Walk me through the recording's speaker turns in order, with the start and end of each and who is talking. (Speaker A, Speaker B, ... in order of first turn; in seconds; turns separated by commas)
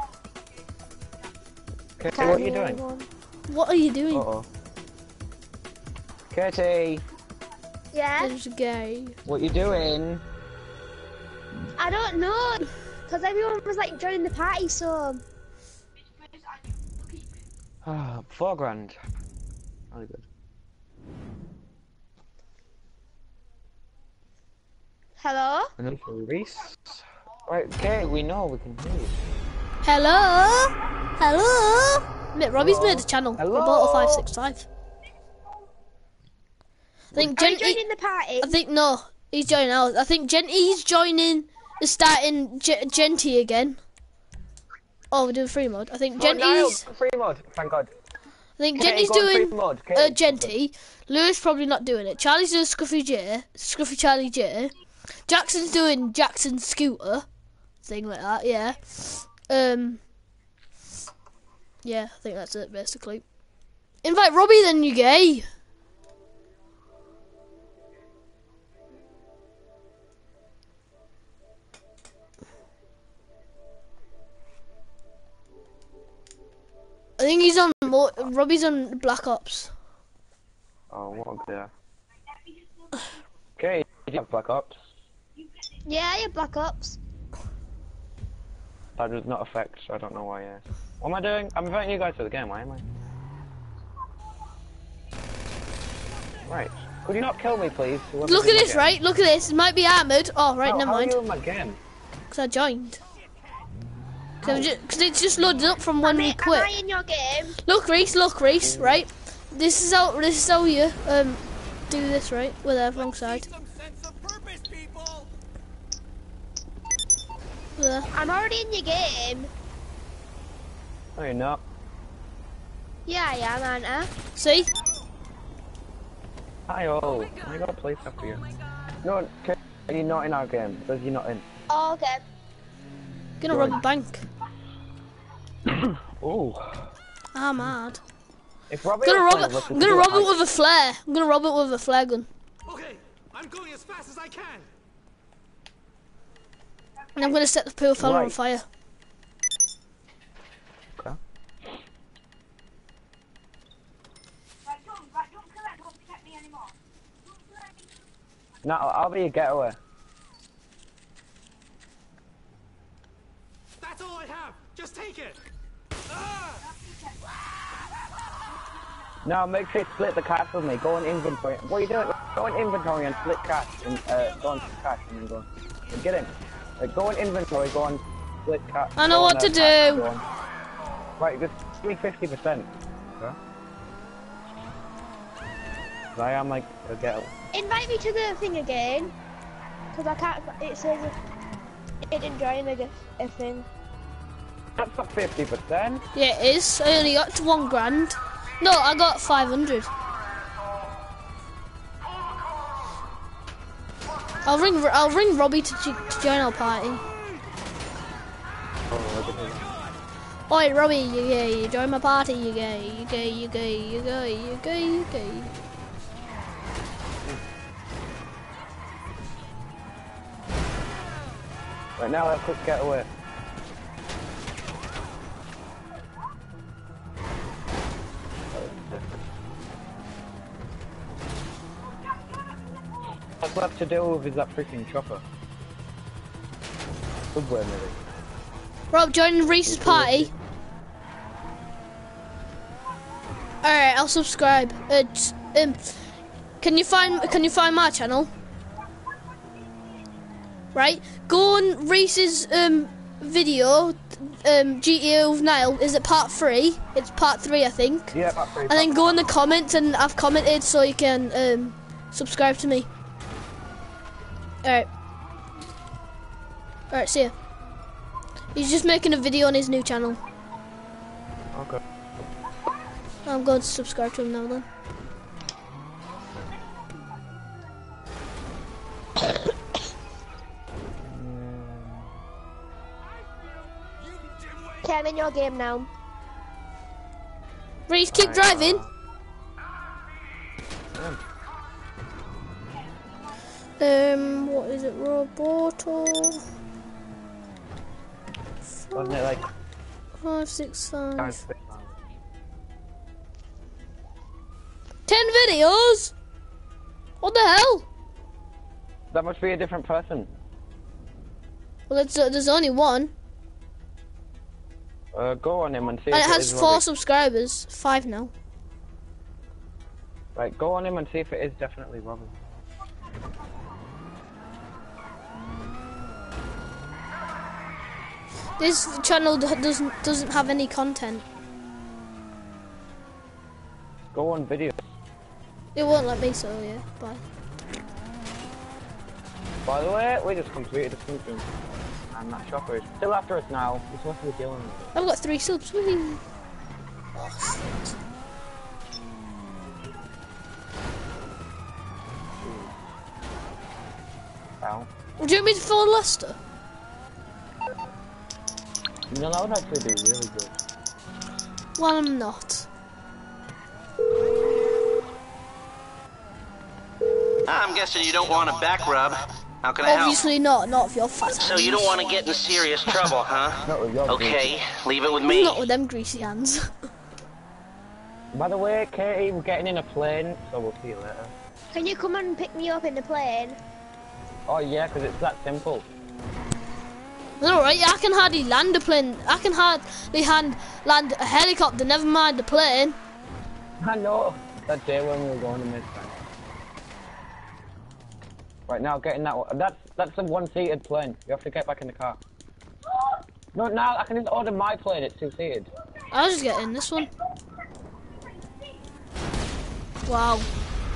Speaker A: 2.0-2.8, Speaker B: 2.1-3.1, Speaker C: 3.5-4.3, Speaker A: 4.1-4.5, Speaker A: 6.3-7.0, Speaker B: 7.9-8.3, Speaker C: 8.2-9.2, Speaker A: 9.3-10.2, Speaker B: 11.8-15.2, Speaker A: 17.8-19.0, Speaker A: 19.9-20.3, Speaker B: 25.2-25.7, Speaker A: 25.8-29.2, Speaker C: 29.8-34.7, Speaker A: 32.6-34.3, Speaker C: 37.1-37.8, Speaker B: 37.2-38.6, Speaker C: 38.4-43.8, Speaker C: 45.1-46.8, Speaker A: 46.1-47.9, Speaker C: 48.6-54.7, Speaker A: 48.8-50.5, Speaker C: 55.3-57.3, Speaker C: 57.8-60.0, Speaker C: 61.8-63.2, Speaker C: 64.0-65.5, Speaker C: 77.2-79.7, Speaker A: 80.9-81.7, Speaker A: 83.6-84.8, Speaker B: 85.9-87.0, Speaker A: 89.0-92.9, Speaker A: 96.4-99.0, Speaker C: 98.2-101.2, Speaker A: 100.6-101.8, Speaker C: 102.3-103.0, Speaker A: 104.4-104.7, Speaker C: 104.4-106.7, Speaker B: 106.0-107.6, Speaker C: 107.6-113.5, Speaker A: 108.6-109.0, Speaker D: 113.0-115.3, Speaker C: 117.8-118.1, Speaker B: 118.1-119.5, Speaker A: 121.2-121.6, Speaker B: 123.1-124.1, Speaker C: 124.4-124.7, Speaker A: 126.7-128.4, Speaker A: 129.0-131.4, Speaker B: 131.7-132.2, Speaker C: 133.4-134.3, Speaker A: 133.5-133.8, Speaker A: 135.7-136.9, Speaker C: 137.3-138.0, Speaker A: 138.7-140.4, Speaker C: 139.0-142.3, Speaker D: 139.5-139.8, Speaker D: 142.7-144.7, Speaker C: 147.2-148.7, Speaker A: 148.0-148.4, Speaker A: 158.6-159.8, Speaker D: 163.8-165.4, Speaker D: 166.1-166.7, Speaker A: 169.2-180.2, Speaker C: 179.0-180.1, Speaker A: 181.2-183.4, Speaker A: 186.1-187.3, Speaker B: 187.5-189.2, Speaker B: 189.9-191.2, Speaker B: 192.1-193.7, Speaker A: 194.8-196.1, Speaker C: 196.1-199.9, Speaker C: 204.4-207.0, Speaker A: 208.9-209.7, Speaker C: 210.5-215.5, Speaker A: 222.0-223.1, Speaker A: 228.5-229.1, Speaker A: 233.4-235.2, Speaker A: 237.3-238.0, Speaker C: 238.9-240.3, Speaker A: 239.7-240.3, Speaker C: 243.6-245.9, Speaker C: 246.6-248.3, Speaker C: 250.8-258.1, Speaker A: 258.1-259.3, Speaker C: 258.7-262.9, Speaker C: 266.9-267.3, Speaker C: 268.5-270.2, Speaker A: 271.5-271.8, Speaker C: 273.2-274.7, Speaker A: 281.0-282.1, Speaker D: 284.2-284.7, Speaker B: 284.8-285.9, Speaker C: 287.9-288.8, Speaker A: 288.1-288.9, Speaker A: 290.9-291.2, Speaker C: 293.8-296.4, Speaker C: 298.8-299.2, Speaker A: 298.9-299.4, Speaker C: 300.2-301.4, Speaker A: 301.2-302.0, Speaker C: 305.1-306.1, Speaker C: 307.2-307.9, Speaker A: 309.1-310.3, Speaker C: 311.9-313.1, Speaker A: 315.1-316.8, Speaker C: 316.1-318.3, Speaker A: 320.4-322.4, Speaker C: 328.6-331.2, Speaker A: 334.1-334.9, Speaker C: 335.8-337.2, Speaker A: 339.6-341.5, Speaker A: 342.1-345.1, Speaker C: 344.9-346.2, Speaker C: 347.2-347.8, Speaker A: 352.4-352.7, Speaker A: 354.6-354.9, Speaker C: 355.2-356.4, Speaker A: 359.1-360.6, Speaker C: 361.8-362.7, Speaker E: 367.4-370.2, Speaker C: 369.8-372.0, Speaker E: 371.4-375.6, Speaker A: 373.6-374.5, Speaker C: 375.2-376.7, Speaker A: 378.3-381.3, Speaker B: 381.7-383.6, Speaker A: 384.5-385.9, Speaker C: 387.4-393.0, Speaker A: 393.8-396.2, Speaker A: 398.7-402.2, Speaker A: 403.5-405.7, Speaker C: 406.1-407.1, Speaker C: 410.1-410.5